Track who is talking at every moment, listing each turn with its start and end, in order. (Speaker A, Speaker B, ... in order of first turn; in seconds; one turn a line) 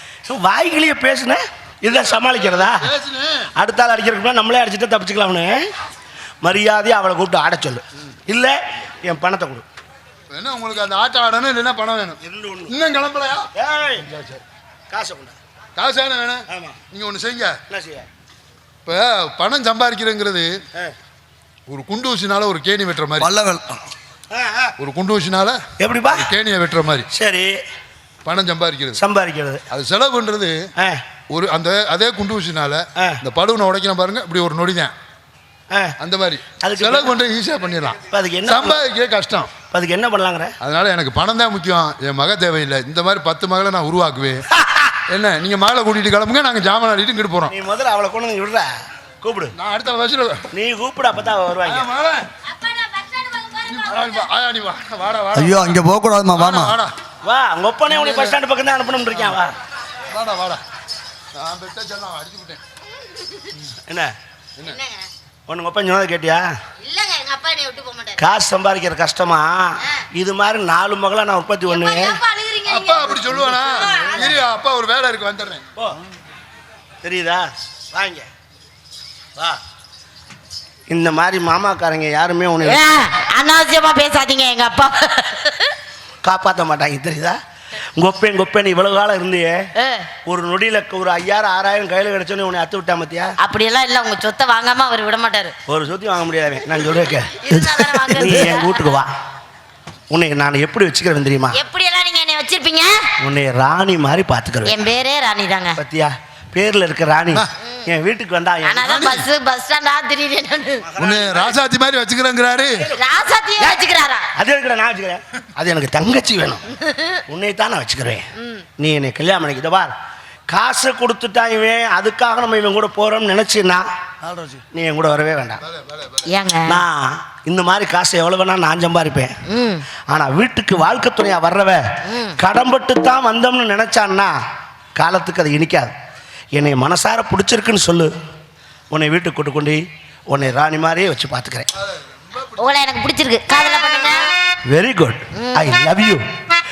Speaker A: 0.3-2.9
Speaker B: 2.7-3.5
Speaker A: 3.6-5.7
Speaker A: 6.4-9.6
Speaker B: 10.3-12.2
Speaker A: 12.2-12.7
Speaker B: 12.7-13.5
Speaker A: 13.6-14.1
Speaker B: 14.0-14.4
Speaker A: 14.9-15.4
Speaker B: 15.8-17.6
Speaker A: 16.5-16.8
Speaker A: 17.7-18.1
Speaker B: 18.9-20.6
Speaker B: 21.7-23.3
Speaker C: 23.2-23.8
Speaker A: 24.3-24.8
Speaker B: 24.8-27.1
Speaker A: 25.8-26.3
Speaker A: 27.1-27.6
Speaker B: 28.2-29.0
Speaker A: 28.9-29.6
Speaker B: 29.7-30.7
Speaker B: 31.3-34.9
Speaker A: 35.7-36.0
Speaker B: 36.0-39.5
Speaker A: 36.6-37.2
Speaker A: 38.1-38.8
Speaker A: 39.7-40.5
Speaker B: 40.6-44.4
Speaker A: 44.5-45.0
Speaker B: 45.1-47.5
Speaker A: 47.5-49.5
Speaker B: 49.6-50.5
Speaker A: 50.5-51.9
Speaker B: 51.6-52.3
Speaker D: 52.5-54.1
Speaker B: 53.6-55.7
Speaker C: 55.3-56.8
Speaker B: 56.4-56.9
Speaker A: 57.2-59.5
Speaker B: 57.9-58.4
Speaker B: 60.1-60.6
Speaker B: 61.3-62.6
Speaker A: 63.9-64.1
Speaker D: 64.7-65.1
Speaker A: 65.5-66.5
Speaker D: 66.8-68.2
Speaker A: 68.2-72.2
Speaker D: 71.7-74.3
Speaker B: 72.7-75.6
Speaker A: 73.6-74.4
Speaker A: 77.0-78.3
Speaker A: 80.9-82.8
Speaker D: 82.6-85.8
Speaker A: 86.2-87.4
Speaker A: 88.0-89.7
Speaker D: 89.8-90.1
Speaker A: 90.2-93.3
Speaker D: 93.4-95.5
Speaker A: 95.7-97.3
Speaker D: 97.4-98.9
Speaker C: 97.5-98.4
Speaker A: 98.2-99.1
Speaker A: 100.1-101.6
Speaker D: 101.5-103.0
Speaker A: 103.2-104.8
Speaker D: 104.7-105.8
Speaker A: 105.8-109.1
Speaker D: 108.6-110.9
Speaker B: 108.8-109.3
Speaker A: 110.8-111.6
Speaker B: 111.0-112.8
Speaker D: 113.0-114.3
Speaker A: 114.3-116.6
Speaker D: 116.8-117.2
Speaker A: 117.3-119.9
Speaker A: 120.5-123.9
Speaker C: 124.2-124.6
Speaker A: 124.7-125.6
Speaker B: 125.6-126.3
Speaker D: 126.3-126.8
Speaker A: 126.7-129.3
Speaker D: 129.5-129.8
Speaker A: 130.1-131.9
Speaker D: 132.1-132.3
Speaker A: 132.4-134.3
Speaker A: 134.9-135.9
Speaker A: 136.5-138.1
Speaker A: 138.9-141.7
Speaker B: 141.8-142.8
Speaker D: 142.6-144.3
Speaker A: 144.7-146.2
Speaker D: 145.4-145.7